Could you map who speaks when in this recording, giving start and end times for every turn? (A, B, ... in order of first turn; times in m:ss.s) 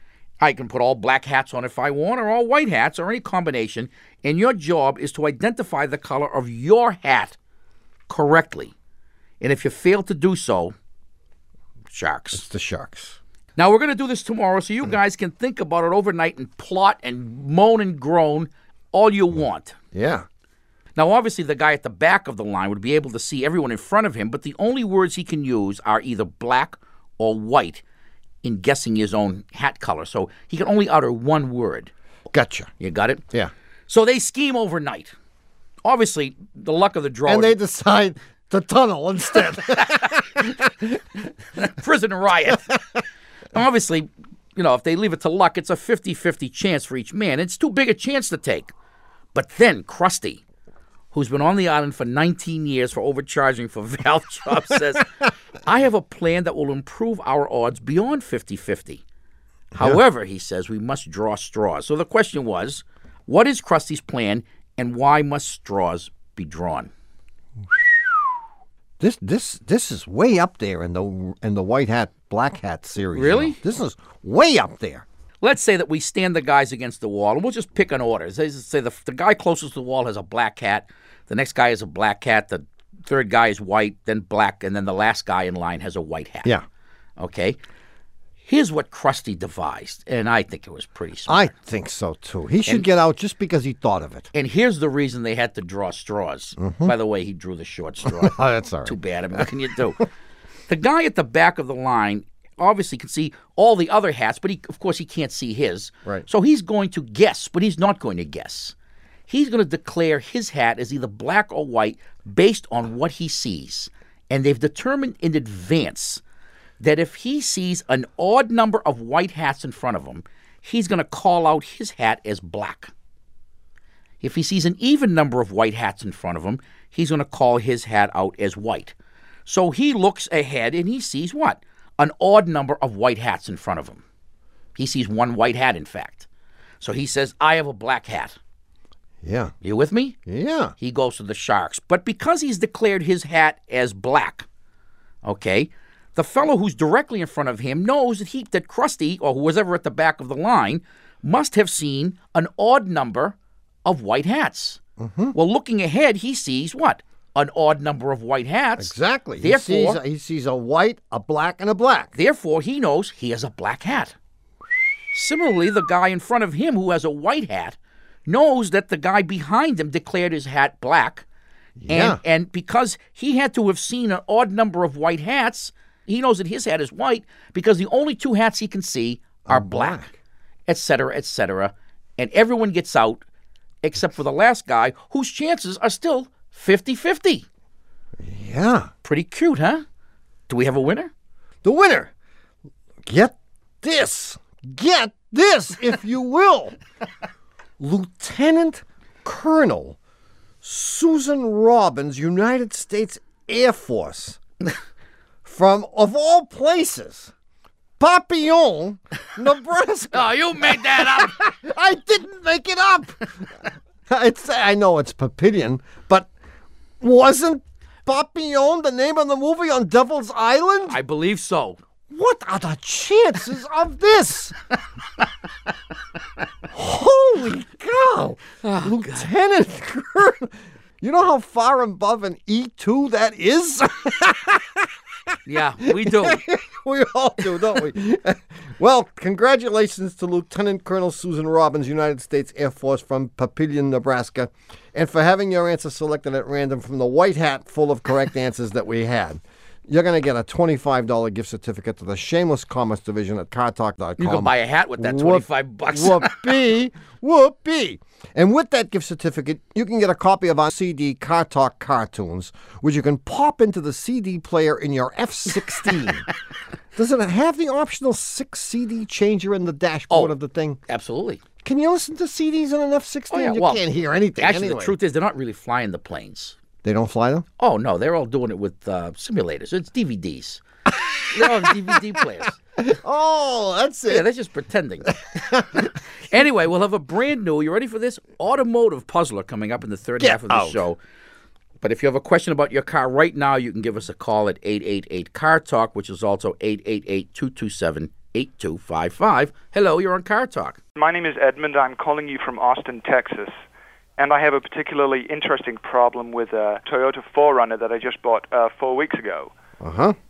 0:00.4-0:07.4 A
0:08.1-0:08.7 A
0:09.4-0:10.7 A
0:11.9-0:12.4 A
0:12.3-0:13.2 B
0:13.6-0:19.8 A
0:19.9-0:20.2 B
0:21.0-0:27.8 A
0:28.4-0:31.9 A
0:32.3-0:32.7 B
0:32.8-0:33.2 A
0:33.9-0:35.1 A
0:35.8-0:37.6 A
0:37.2-0:41.2 B
0:39.7-0:40.1 A
0:41.6-0:42.7 A
0:42.5-0:42.8 B
0:43.5-0:48.7 A
0:49.3-0:50.4 A
0:51.1-0:59.0 A
0:59.7-1:00.0 B
0:59.7-1:06.9 A
1:09.0-1:15.0 B
1:13.1-1:13.6 A
1:15.4-1:26.5 A
1:27.2-1:27.6 A
1:28.4-1:31.5 A
1:31.3-1:34.3 B
1:34.3-1:40.0 A
1:36.6-1:36.9 B
1:38.0-1:39.5 B
1:40.7-1:48.7 A
1:49.3-1:56.2 A
1:56.8-2:02.9 A
2:04.2-2:08.9 A
2:09.4-2:14.0 A
2:14.7-2:16.3 A
2:16.8-2:18.4 A
2:19.2-2:19.5 B
2:19.6-2:20.2 A
2:20.2-2:20.7 B
2:20.8-2:24.4 A
2:25.2-2:34.8 A
2:35.0-2:35.3 B
2:35.3-2:40.0 A
2:38.8-2:42.1 B
2:42.1-2:44.1 A
2:45.1-2:51.2 A
2:51.8-2:52.2 B
2:51.9-3:00.0 A
2:59.4-3:00.1 B
3:00.7-3:03.2 A
3:03.8-3:07.4 A
3:08.2-3:08.9 B
3:09.0-3:09.8 A
3:10.5-3:11.1 A
3:11.6-3:12.1 B
3:13.0-3:16.8 B
3:17.8-3:20.0 B
3:20.6-3:24.4 B
3:25.4-3:27.3 B
3:28.0-3:33.5 B
3:30.1-3:31.5 A
3:34.1-3:36.3 B
3:37.0-3:41.0 B
3:40.8-3:41.8 A
3:42.1-3:44.5 B
3:46.7-3:54.9 B
3:48.6-3:49.3 A
3:55.4-3:56.4 A
3:55.8-4:26.2 B
4:14.2-4:16.6 A
4:26.9-4:30.8 B
4:30.1-4:31.4 A
4:31.6-4:34.9 B
4:33.3-4:33.8 A
4:34.4-4:36.6 A
4:36.8-4:37.4 B
4:37.6-4:40.6 A
4:41.3-4:42.6 A
4:41.4-4:41.7 B
4:42.8-4:44.3 B
4:44.1-4:45.2 A
4:45.3-4:45.9 B
4:46.2-4:51.0 A
4:50.2-4:50.8 B
4:51.8-5:00.8 A
5:01.0-5:03.6 C
5:04.2-5:09.5 C
5:09.8-5:10.2 B